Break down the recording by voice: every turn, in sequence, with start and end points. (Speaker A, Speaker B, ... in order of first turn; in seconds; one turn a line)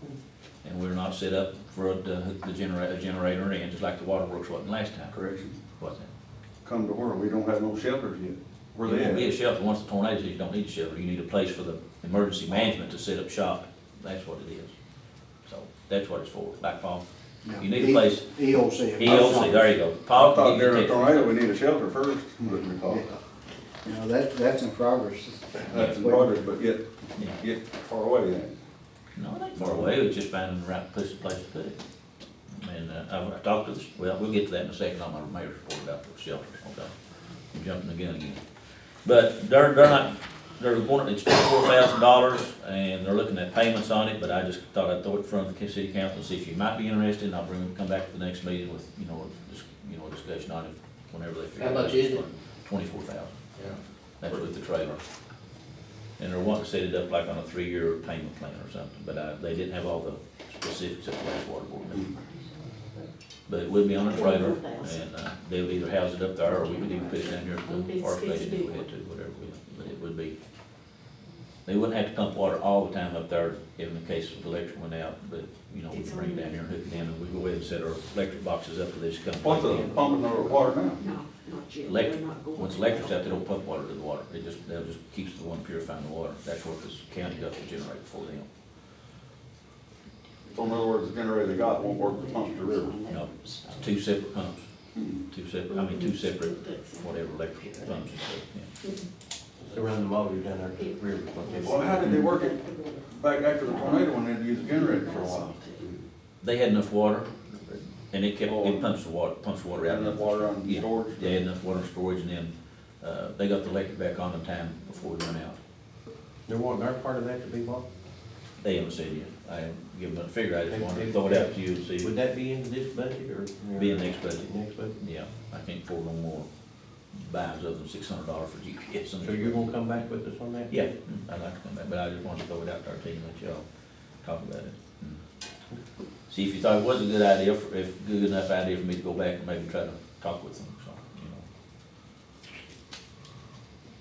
Speaker A: 0.6-5.1
Speaker B: 5.1-5.6
Speaker A: 5.8-6.1
Speaker B: 6.6-9.3
Speaker A: 8.8-14.7
Speaker A: 15.4-17.0
Speaker C: 17.5-19.7
Speaker A: 17.6-18.3
Speaker A: 18.9-21.3
Speaker B: 20.1-23.1
Speaker C: 23.9-26.4
Speaker B: 25.6-26.8
Speaker A: 25.7-26.0
Speaker B: 27.4-28.5
Speaker A: 29.2-31.8
Speaker B: 29.6-29.9
Speaker A: 32.5-36.9
Speaker A: 37.5-38.4
Speaker A: 39.0-53.5
Speaker D: 51.6-52.2
Speaker A: 54.2-55.0
Speaker A: 56.2-62.1
Speaker A: 63.5-70.3
Speaker E: 64.0-65.0
Speaker E: 66.5-68.9
Speaker A: 71.7-80.6
Speaker E: 75.9-76.6
Speaker B: 79.4-81.0
Speaker E: 81.0-83.4
Speaker A: 81.8-88.5
Speaker E: 90.5-94.0
Speaker B: 90.5-93.0
Speaker A: 93.1-94.7
Speaker A: 95.3-98.7
Speaker E: 95.7-98.2
Speaker D: 99.6-102.3
Speaker E: 100.8-106.0
Speaker B: 101.6-105.9
Speaker A: 106.4-115.6
Speaker B: 108.5-108.9
Speaker B: 109.8-111.4
Speaker D: 116.5-117.9
Speaker A: 118.6-122.1
Speaker D: 120.7-125.0
Speaker A: 123.8-126.5
Speaker A: 127.1-130.0
Speaker D: 129.2-130.7
Speaker A: 130.7-133.6
Speaker A: 134.2-135.2
Speaker A: 136.3-141.4